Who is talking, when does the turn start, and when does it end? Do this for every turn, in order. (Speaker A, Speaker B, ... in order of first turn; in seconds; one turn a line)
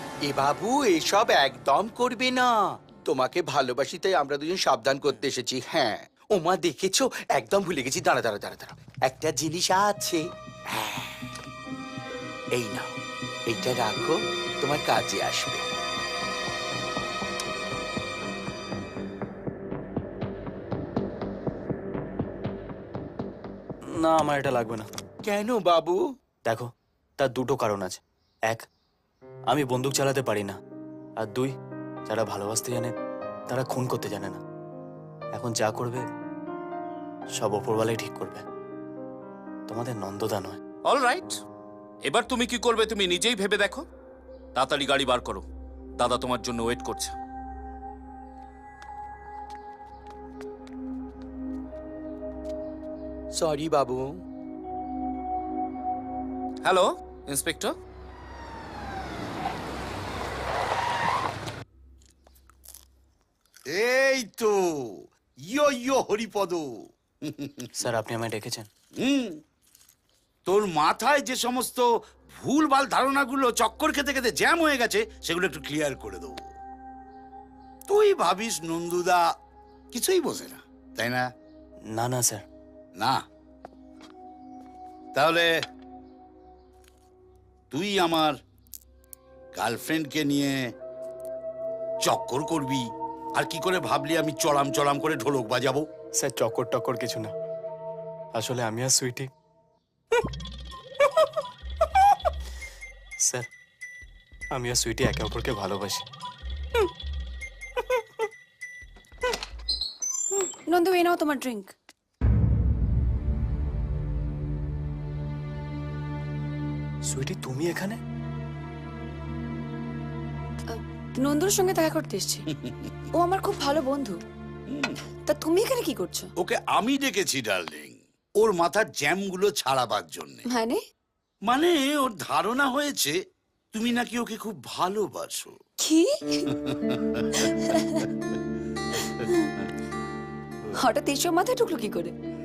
Speaker A: 0.2-11.4
Speaker A: 12.6-13.0
Speaker A: 13.5-15.6
Speaker B: 23.9-24.9
Speaker A: 25.2-26.0
Speaker B: 27.2-28.7
Speaker B: 29.5-30.6
Speaker B: 31.2-31.5
Speaker B: 32.1-33.0
Speaker B: 33.5-34.4
Speaker B: 35.3-36.0
Speaker B: 37.4-38.4
Speaker B: 39.7-40.6
Speaker C: 40.9-41.4
Speaker C: 42.0-43.9
Speaker C: 44.6-45.5
Speaker C: 46.0-47.1
Speaker A: 53.4-54.2
Speaker C: 56.6-57.8
Speaker D: 63.7-65.0
Speaker D: 65.5-66.6
Speaker D: 67.2-67.7
Speaker B: 67.8-68.7
Speaker D: 69.0-69.4
Speaker D: 70.5-76.4
Speaker D: 77.9-79.2
Speaker D: 79.9-81.2
Speaker B: 82.0-82.4
Speaker D: 85.2-85.5
Speaker D: 87.7-88.3
Speaker D: 89.5-90.5
Speaker D: 92.0-92.8
Speaker D: 93.4-95.9
Speaker B: 96.2-97.3
Speaker B: 98.3-99.3
Speaker B: 101.0-101.3
Speaker B: 101.8-102.1
Speaker B: 104.5-106.1
Speaker E: 110.3-111.7
Speaker B: 117.1-118.0
Speaker E: 120.7-122.5
Speaker D: 122.5-123.0
Speaker E: 123.2-124.2
Speaker D: 124.7-125.0
Speaker E: 125.3-126.3
Speaker D: 126.4-130.4
Speaker E: 130.5-130.8
Speaker D: 131.5-133.1
Speaker D: 133.7-135.5
Speaker E: 135.8-136.5
Speaker D: 136.6-137.4
Speaker E: 137.4-138.1
Speaker E: 139.2-139.5
Speaker E: 140.8-142.1